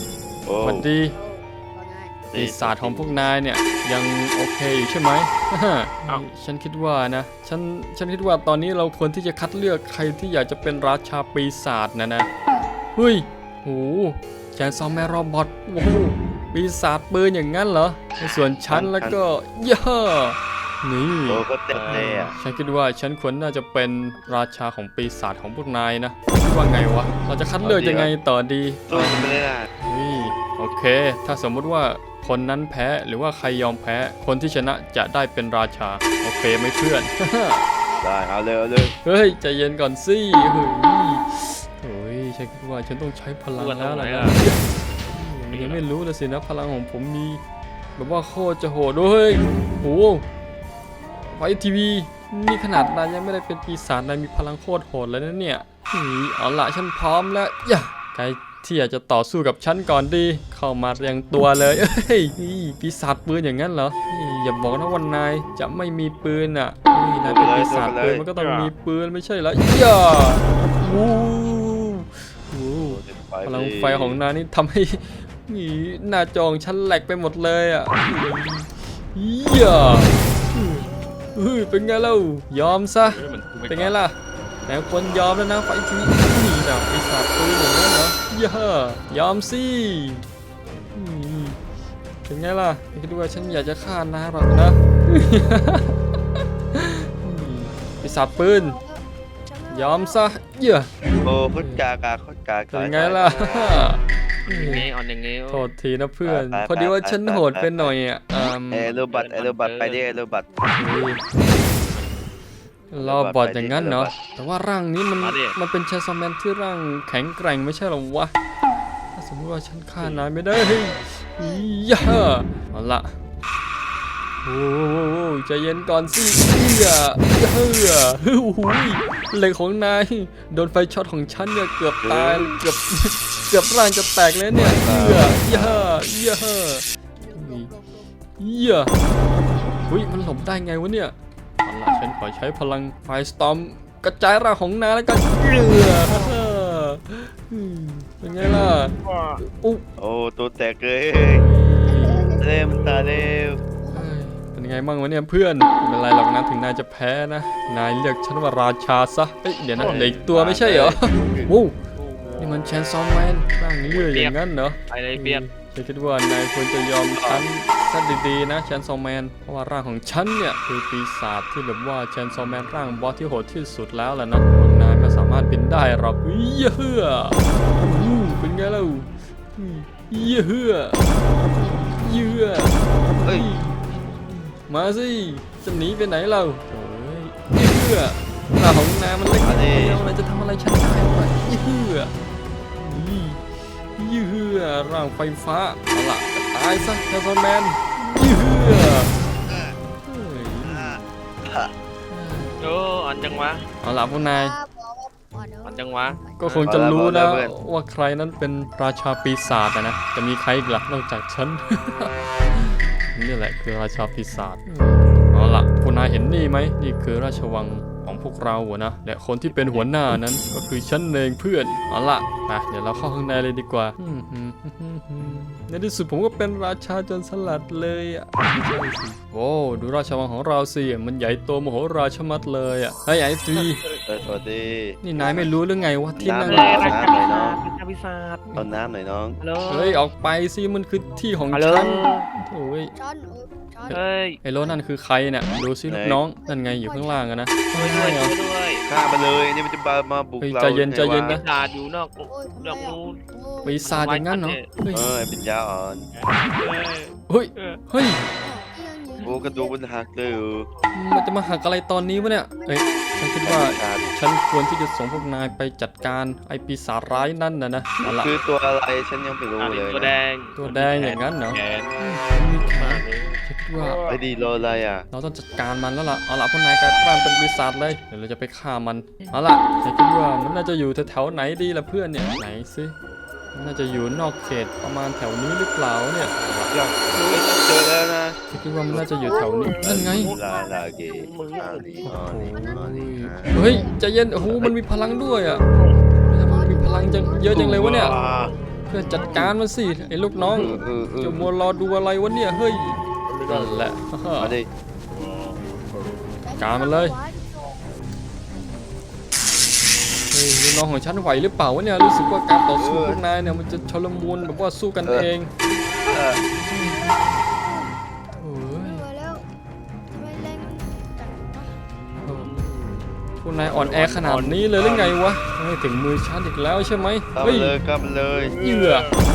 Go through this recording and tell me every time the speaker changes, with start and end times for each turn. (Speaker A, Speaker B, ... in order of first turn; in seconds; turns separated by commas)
Speaker A: 0.5-0.9, Speaker B: 0.6-1.1, Speaker C: 1.1-2.2, Speaker A: 2.3-3.3, Speaker B: 2.3-12.3, Speaker B: 12.9-37.6, Speaker A: 18.7-19.2, Speaker A: 21.2-22.3, Speaker D: 21.7-22.3, Speaker C: 22.4-22.7, Speaker C: 24.1-24.4, Speaker A: 27.6-28.1, Speaker A: 28.9-29.7, Speaker C: 30.1-30.4, Speaker C: 37.8-38.1, Speaker A: 38.0-38.9, Speaker B: 39.0-47.4, Speaker D: 43.5-44.4, Speaker D: 45.5-45.8, Speaker B: 48.0-50.2, Speaker B: 51.2-84.1, Speaker A: 67.2-68.2, Speaker D: 68.3-68.7, Speaker A: 72.8-74.2, Speaker D: 83.0-84.0, Speaker B: 84.7-90.2, Speaker B: 90.9-91.6, Speaker B: 92.3-96.0, Speaker C: 93.5-93.8, Speaker C: 94.5-95.4, Speaker B: 96.7-98.8, Speaker C: 98.0-100.4, Speaker B: 99.7-100.9, Speaker A: 101.2-103.7, Speaker B: 101.6-101.8, Speaker B: 102.7-104.8, Speaker D: 104.4-105.7, Speaker B: 105.5-109.0, Speaker A: 106.2-107.9, Speaker A: 108.7-110.5, Speaker D: 108.8-110.2, Speaker B: 110.8-111.2, Speaker D: 110.8-112.3, Speaker B: 112.9-118.3, Speaker A: 112.9-114.2, Speaker D: 115.2-115.5, Speaker B: 119.1-123.1, Speaker C: 120.9-121.7, Speaker B: 124.4-136.8, Speaker A: 132.0-132.5, Speaker A: 134.5-135.9, Speaker C: 137.2-138.1, Speaker B: 137.4-137.7, Speaker B: 138.4-138.9, Speaker B: 139.9-149.8, Speaker D: 149.0-149.4, Speaker A: 150.0-151.4, Speaker B: 151.2-152.3, Speaker C: 151.8-152.5, Speaker A: 152.4-153.6, Speaker D: 152.7-153.0, Speaker C: 153.8-154.1, Speaker B: 153.9-161.8, Speaker A: 159.8-161.5, Speaker D: 161.9-162.7, Speaker B: 162.4-181.0, Speaker D: 163.8-164.4, Speaker D: 164.9-165.4, Speaker A: 167.1-167.4, Speaker B: 181.5-192.1, Speaker A: 189.4-190.0, Speaker B: 192.8-193.4, Speaker B: 193.9-199.2, Speaker A: 199.4-199.7, Speaker B: 200.1-201.0, Speaker A: 200.6-201.7, Speaker B: 202.1-202.5, Speaker D: 202.6-203.6, Speaker B: 203.8-204.6, Speaker C: 204.2-206.4, Speaker D: 205.6-206.7, Speaker B: 206.4-233.8, Speaker A: 206.6-207.5, Speaker D: 219.5-219.9, Speaker D: 233.5-234.0, Speaker A: 234.1-235.5, Speaker B: 235.0-237.1, Speaker C: 235.2-237.3, Speaker A: 236.2-237.6, Speaker D: 236.4-238.4, Speaker B: 238.5-238.8, Speaker A: 238.5-239.4, Speaker D: 239.4-240.0, Speaker B: 239.6-242.9, Speaker D: 241.5-242.2, Speaker C: 242.8-244.0, Speaker B: 243.8-248.3, Speaker D: 243.9-244.4, Speaker C: 244.6-244.8, Speaker A: 245.9-246.2, Speaker C: 246.4-248.9, Speaker D: 247.7-248.8, Speaker A: 248.9-251.4, Speaker B: 250.4-251.4, Speaker D: 251.3-253.2, Speaker C: 252.3-254.1, Speaker B: 253.6-255.1, Speaker D: 253.8-254.7, Speaker A: 254.9-256.0, Speaker D: 256.1-257.8, Speaker B: 257.3-258.2, Speaker C: 258.4-260.4, Speaker A: 259.2-260.6, Speaker B: 260.9-268.3, Speaker C: 261.5-264.1, Speaker A: 263.4-264.1, Speaker A: 268.0-270.2, Speaker C: 268.1-268.8, Speaker D: 269.6-272.0, Speaker B: 270.6-274.0, Speaker D: 272.6-273.4, Speaker A: 274.1-275.1, Speaker B: 275.1-282.9, Speaker C: 276.7-277.6, Speaker C: 283.3-284.8, Speaker B: 283.5-286.3, Speaker D: 286.4-286.7, Speaker A: 286.7-288.4, Speaker B: 288.5-290.3, Speaker C: 288.6-292.8, Speaker A: 288.9-293.5, Speaker B: 292.0-295.6, Speaker C: 293.5-294.0, Speaker C: 294.9-303.2, Speaker B: 296.3-298.1, Speaker A: 297.5-298.5, Speaker B: 298.9-304.6, Speaker A: 300.4-301.5, Speaker A: 304.4-304.7, Speaker C: 306.4-307.9, Speaker B: 306.6-307.1, Speaker C: 308.5-309.9, Speaker B: 310.3-315.5, Speaker A: 312.8-313.2, Speaker A: 315.0-315.3, Speaker C: 315.8-317.9, Speaker A: 316.1-316.4, Speaker B: 316.7-317.1, Speaker B: 318.4-319.0, Speaker C: 318.7-319.4, Speaker C: 320.1-321.8, Speaker B: 322.2-322.5, Speaker B: 323.4-327.8, Speaker D: 323.9-324.3, Speaker A: 323.9-324.8, Speaker C: 326.8-327.1, Speaker A: 327.3-328.6, Speaker B: 328.6-329.1